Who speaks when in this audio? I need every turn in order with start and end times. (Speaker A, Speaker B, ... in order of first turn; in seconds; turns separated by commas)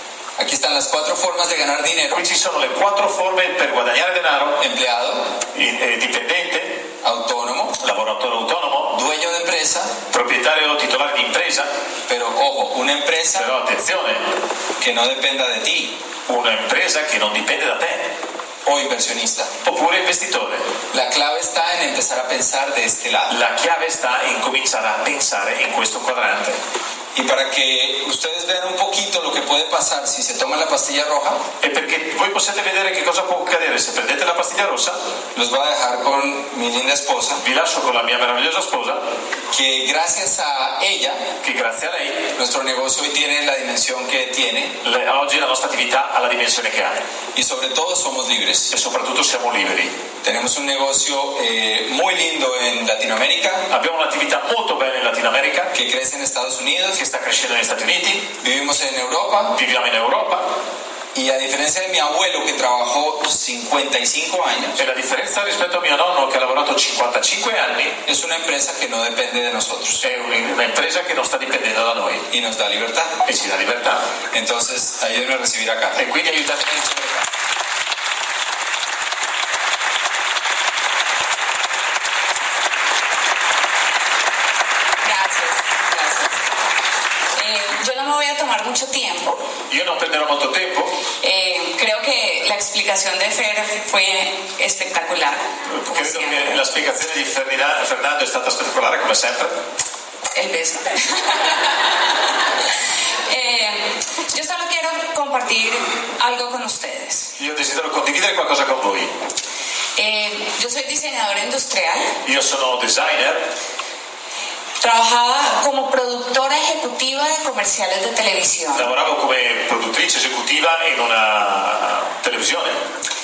Speaker A: 0.4-2.2, Speaker B: 2.1-4.6, Speaker A: 4.6-5.3, Speaker B: 5.5-6.8, Speaker A: 7.0-7.8, Speaker B: 7.8-9.0, Speaker A: 8.9-9.9, Speaker B: 10.1-11.7, Speaker A: 12.1-13.5, Speaker B: 13.3-14.2, Speaker A: 14.8-15.9, Speaker B: 16.3-18.1, Speaker A: 18.6-19.5, Speaker B: 19.6-20.7, Speaker A: 20.9-23.4, Speaker B: 23.3-26.6, Speaker A: 27.1-31.4, Speaker B: 31.6-35.0, Speaker A: 35.3-37.4, Speaker B: 37.4-39.0, Speaker A: 39.5-41.2, Speaker B: 41.4-42.3, Speaker A: 42.3-44.7, Speaker B: 44.8-47.0, Speaker A: 47.3-48.7, Speaker B: 48.7-49.9, Speaker A: 50.2-53.7, Speaker B: 53.7-55.7, Speaker A: 55.7-57.0, Speaker B: 56.9-58.3, Speaker A: 58.4-59.6, Speaker B: 59.5-60.5, Speaker A: 61.1-64.8, Speaker B: 64.8-68.0, Speaker A: 68.0-70.0, Speaker B: 70.0-72.2, Speaker A: 72.3-73.2, Speaker B: 73.2-74.1, Speaker A: 74.3-76.0, Speaker B: 76.0-77.2, Speaker C: 85.0-86.4, Speaker C: 87.3-89.4, Speaker B: 89.7-91.0, Speaker C: 91.2-96.6, Speaker B: 95.7-99.6, Speaker C: 100.3-101.8, Speaker C: 103.3-107.3, Speaker B: 107.4-109.1, Speaker C: 110.0-112.1, Speaker B: 112.2-113.5, Speaker C: 114.8-118.9, Speaker B: 118.7-122.8